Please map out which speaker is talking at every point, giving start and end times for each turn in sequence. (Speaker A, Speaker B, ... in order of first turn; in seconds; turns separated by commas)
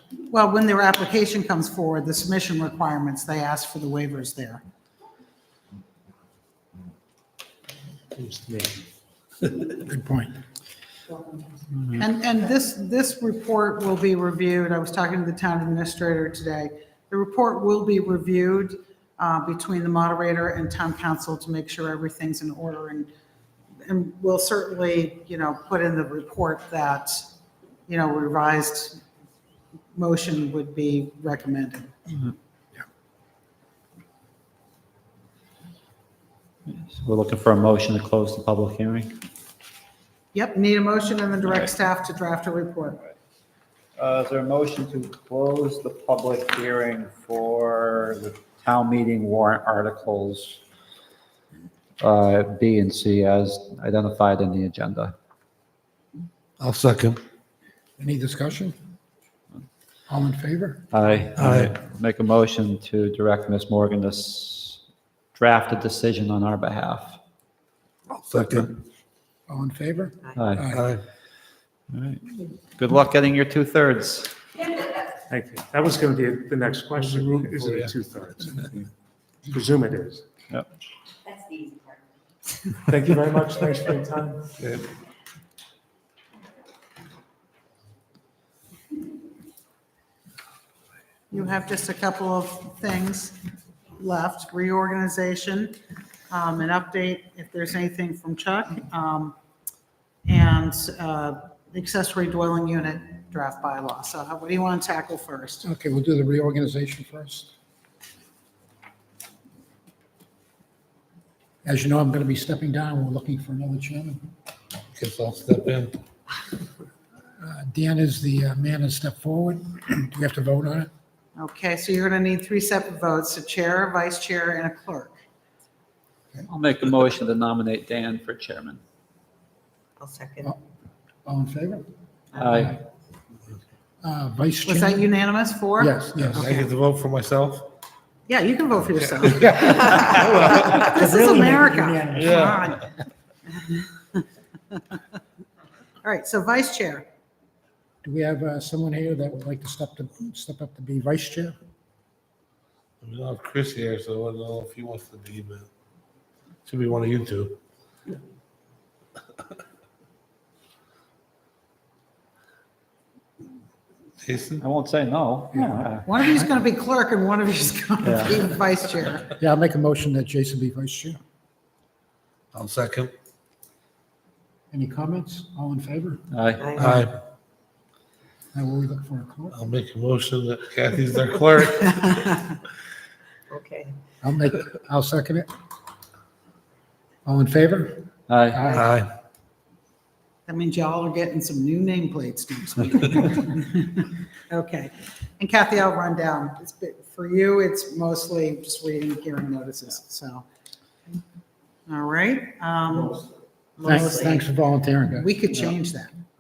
Speaker A: 0.3-4.6, Speaker B: 8.1-8.8, Speaker C: 9.8-10.4, Speaker A: 12.0-23.1, Speaker A: 23.8-27.3, Speaker A: 27.9-29.0, Speaker A: 29.9-32.0, Speaker D: 36.7-39.1, Speaker A: 40.3-43.0, Speaker D: 44.0-50.6, Speaker D: 52.0-55.1, Speaker E: 56.6-57.2, Speaker C: 58.0-58.8, Speaker C: 60.1-60.9, Speaker D: 60.9-64.8, Speaker E: 61.4-61.7, Speaker D: 65.3-67.2, Speaker E: 68.2-68.7, Speaker C: 69.5-70.8, Speaker D: 70.4-70.7, Speaker E: 70.7-71.0, Speaker D: 71.9-74.3, Speaker B: 75.3-78.9, Speaker E: 77.1-77.9, Speaker B: 79.5-80.2, Speaker F: 81.3-81.8, Speaker B: 82.9-84.5, Speaker E: 84.6-84.8, Speaker A: 91.3-93.4, Speaker A: 94.0-95.8, Speaker A: 96.3-99.3, Speaker A: 100.3-105.7, Speaker C: 105.6-107.5, Speaker C: 111.7-114.2, Speaker E: 115.0-116.0, Speaker C: 117.4-120.9, Speaker A: 121.4-125.2, Speaker D: 126.5-128.8, Speaker F: 130.0-130.5, Speaker C: 131.3-131.9, Speaker D: 132.4-132.8, Speaker C: 132.4-132.8, Speaker C: 134.0-135.1, Speaker A: 134.7-135.9, Speaker C: 135.8-136.5, Speaker E: 136.2-137.7, Speaker A: 138.3-142.8, Speaker C: 139.4-142.8, Speaker E: 142.2-142.7, Speaker A: 143.5-144.2, Speaker A: 146.0-147.1, Speaker C: 148.0-151.6, Speaker E: 153.0-155.7, Speaker E: 156.7-157.6, Speaker E: 164.2-164.6, Speaker D: 164.6-166.1, Speaker C: 165.6-165.8, Speaker A: 166.1-169.3, Speaker D: 168.0-168.4, Speaker C: 169.4-171.2, Speaker E: 172.5-173.1, Speaker C: 174.7-176.2, Speaker D: 176.3-176.7, Speaker F: 176.6-176.9, Speaker C: 176.8-177.1, Speaker E: 176.8-177.1, Speaker C: 178.5-179.7, Speaker E: 179.5-182.2, Speaker F: 183.5-183.9, Speaker C: 184.2-185.5, Speaker C: 187.3-188.8, Speaker D: 188.3-188.6, Speaker E: 188.7-189.1, Speaker A: 190.5-200.4, Speaker A: 201.9-203.2, Speaker F: 203.8-204.4, Speaker C: 203.8-205.4, Speaker A: 203.9-204.4, Speaker A: 205.2-206.1